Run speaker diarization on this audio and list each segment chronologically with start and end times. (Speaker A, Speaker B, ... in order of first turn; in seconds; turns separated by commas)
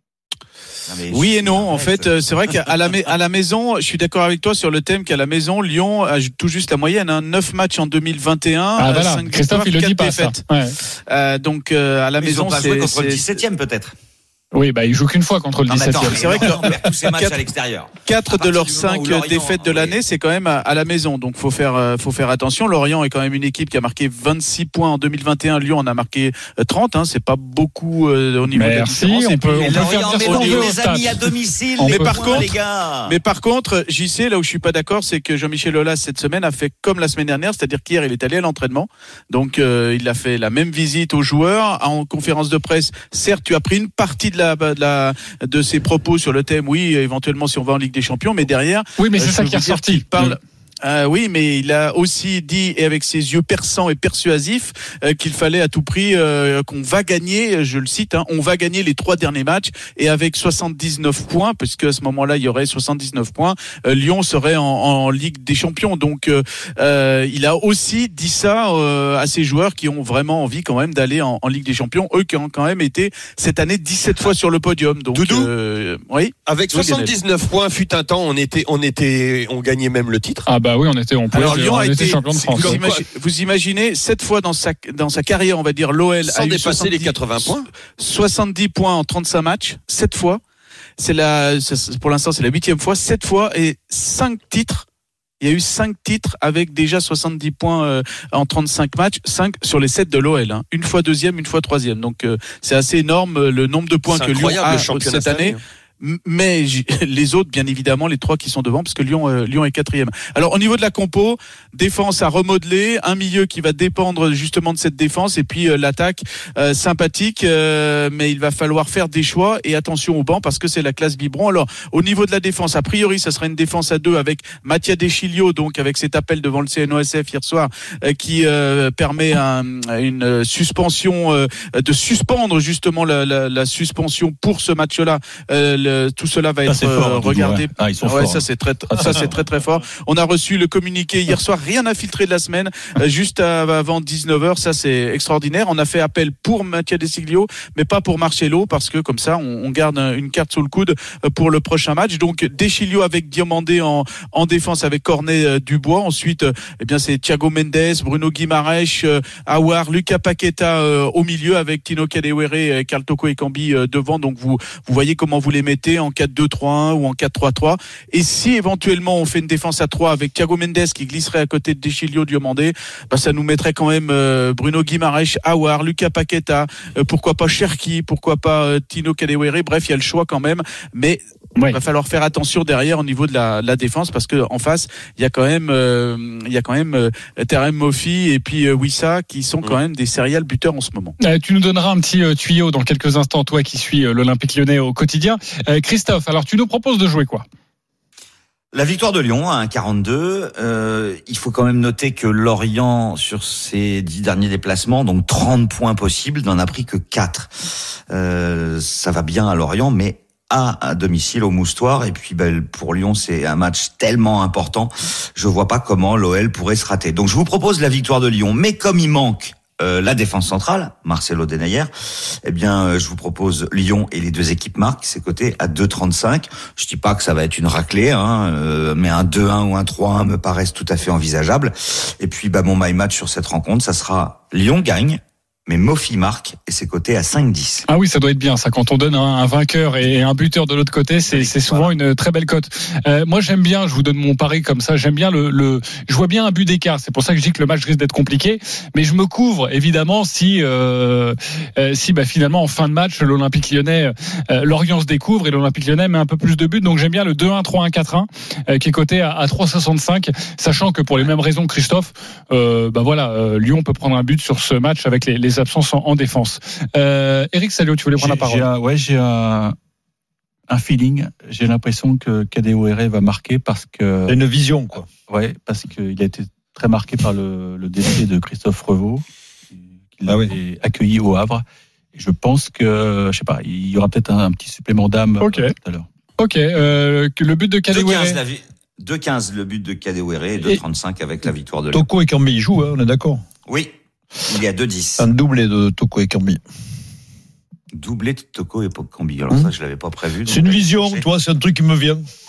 Speaker A: 0.8-2.2, Speaker B: 1.1-10.4, Speaker C: 8.8-10.8, Speaker B: 11.1-13.3, Speaker A: 12.2-13.9, Speaker C: 14.5-16.5, Speaker A: 15.7-20.0, Speaker B: 16.0-17.4, Speaker B: 18.0-30.8, Speaker C: 28.5-32.5, Speaker A: 29.6-33.1, Speaker B: 31.8-77.1, Speaker C: 49.0-50.3, Speaker D: 75.1-75.5, Speaker D: 76.5-80.4, Speaker C: 80.5-82.8, Speaker D: 81.3-83.0, Speaker B: 81.3-90.4, Speaker D: 86.2-87.7, Speaker B: 91.0-94.8, Speaker B: 95.4-191.2, Speaker D: 104.1-105.6, Speaker E: 136.7-139.4, Speaker C: 191.2-197.4, Speaker A: 198.7-207.5, Speaker A: 208.1-221.9, Speaker A: 222.4-237.8, Speaker C: 237.9-268.6, Speaker A: 241.3-241.9, Speaker E: 268.2-269.8, Speaker E: 270.7-274.4, Speaker F: 274.3-275.1, Speaker E: 275.1-286.1, Speaker F: 280.2-280.5, Speaker C: 285.4-285.7, Speaker C: 286.4-288.4, Speaker A: 287.9-292.1, Speaker F: 291.9-293.4, Speaker A: 293.7-293.9, Speaker A: 294.4-295.2, Speaker F: 295.2-296.6, Speaker A: 297.9-301.2, Speaker F: 300.4-302.2